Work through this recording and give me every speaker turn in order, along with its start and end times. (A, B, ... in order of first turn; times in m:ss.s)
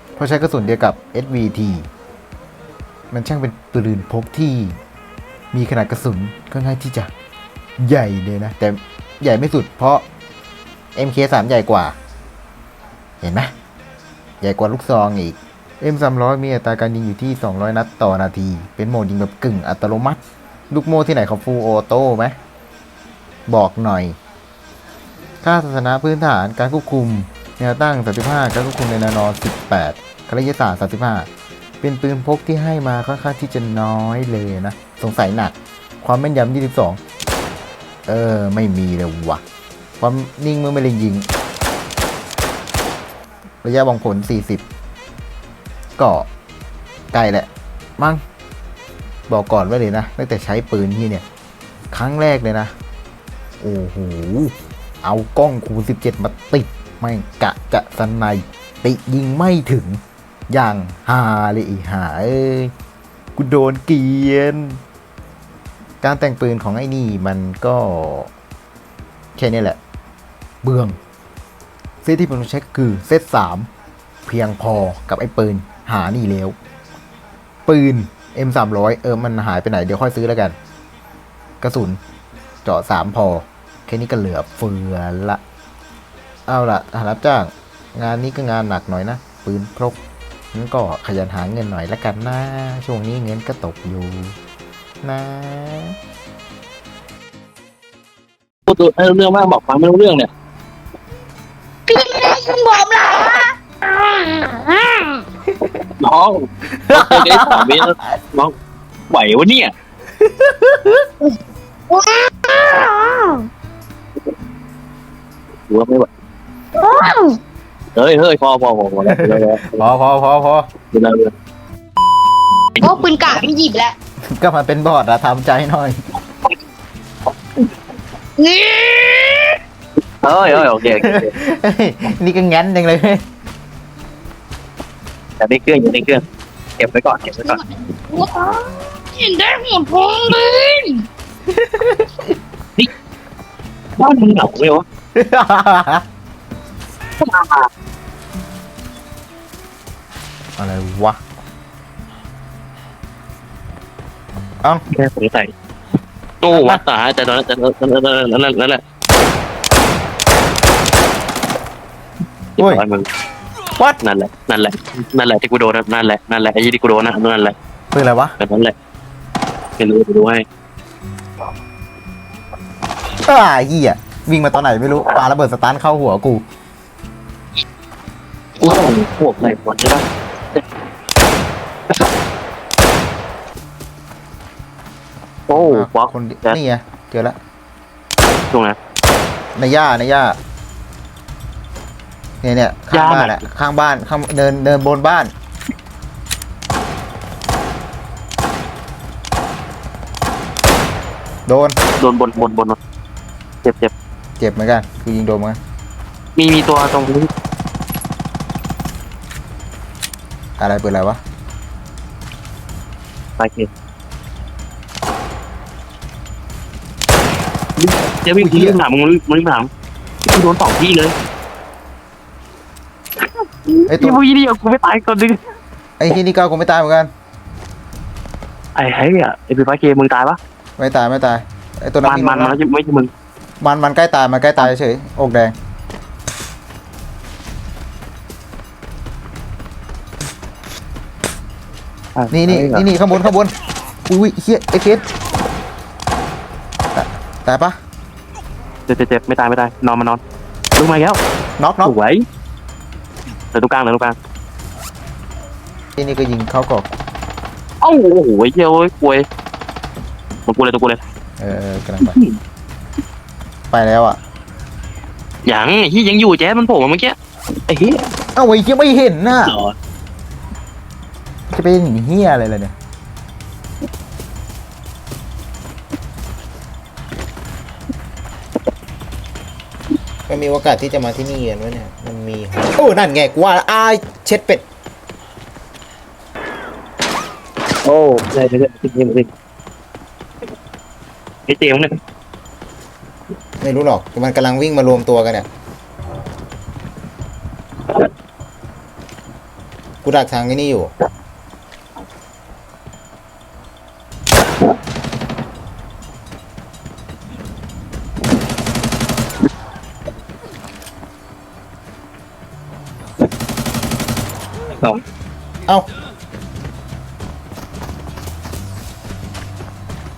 0:00.2-0:01.9 A
0:03.1-0:04.8 A
0:05.5-0:07.1 A
0:07.8-0:10.0 A
0:11.0-0:12.0 A
0:13.2-0:13.5 A
0:14.4-0:22.3 A
0:23.5-0:24.2 A
0:25.4-0:31.3 A
0:31.8-0:37.0 A
0:38.1-0:39.4 A
0:40.0-0:41.3 A
0:43.6-0:44.6 A
0:46.0-0:46.3 A
0:47.1-0:48.2 A
0:49.3-0:51.2 A
0:51.9-0:52.7 A
0:53.6-1:02.7 A
1:03.4-1:04.8 A
1:06.0-1:08.3 A
1:09.4-1:09.8 A
1:10.6-1:11.0 A
1:12.0-1:13.7 A
1:14.3-1:16.6 A
1:17.7-1:20.6 A
1:21.6-1:22.0 A
1:22.6-1:25.4 A
1:26.5-1:30.0 A
1:30.5-1:34.4 A
1:35.0-1:36.0 A
1:38.7-1:40.3 B
1:41.9-1:45.2 C
1:45.8-1:48.5 B
1:46.7-1:48.1 A
1:49.1-1:49.7 B
1:50.2-1:51.1 A
1:51.9-1:53.5 C
1:55.7-1:56.1 B
1:56.8-1:57.4 C
1:58.0-1:59.9 B
1:59.1-2:00.7 A
2:00.9-2:01.3 B
2:02.8-2:03.9 C
2:04.3-2:06.0 A
2:08.4-2:09.6 C
2:10.2-2:11.3 B
2:10.8-2:13.2 A
2:15.4-2:16.2 B
2:16.8-2:17.6 B
2:19.2-2:21.0 C
2:21.5-2:22.3 A
2:24.0-2:24.8 B
2:25.2-2:26.0 A
2:27.2-2:27.7 B
2:30.6-2:31.2 A
2:34.9-2:35.5 B
2:36.4-2:38.8 B
2:36.5-2:36.8 A
2:42.6-2:43.1 B
2:44.0-2:47.6 B
2:47.9-2:48.4 A
2:48.4-2:48.7 B
2:49.8-2:50.4 B
2:53.2-2:56.4 A
2:58.6-3:00.0 B
3:05.5-3:06.6 B
3:05.5-3:07.4 A
3:09.6-3:10.4 A
3:12.4-3:15.3 A
3:12.9-3:13.4 B
3:21.5-3:21.8 A
3:22.0-3:22.8 B
3:23.6-3:23.9 B
3:24.4-3:25.6 A
3:26.4-3:27.3 B
3:30.6-3:31.2 A
3:33.4-3:33.7 B
3:37.8-3:39.7 B
3:38.4-3:38.8 A
3:40.3-3:41.1 B
3:43.7-3:45.4 B
3:43.9-3:44.2 A
3:46.0-3:47.1 A
3:48.8-3:50.4 B
3:50.8-3:52.6 A
3:52.0-3:53.1 B
3:53.6-3:55.5 A
4:02.2-4:02.9 B
4:02.3-4:03.5 A
4:04.1-4:05.0 A
4:06.9-4:07.8 A
4:08.9-4:10.2 B
4:10.8-4:11.2 B
4:11.6-4:11.9 A
4:11.8-4:12.2 B
4:13.5-4:14.2 B
4:16.0-4:16.9 A
4:17.8-4:19.2 B
4:20.5-4:21.0 B
4:21.4-4:22.2 A
4:22.0-4:22.4 B
4:23.7-4:24.2 A
4:25.5-4:27.2 B
4:27.7-4:28.1 B
4:28.4-4:29.6 A
4:29.4-4:29.8 B
4:31.5-4:32.8 A
4:40.3-4:44.6 A
4:47.8-4:49.3 B
4:51.5-4:51.9 B
4:53.6-4:55.5 A
5:00.0-5:00.9 A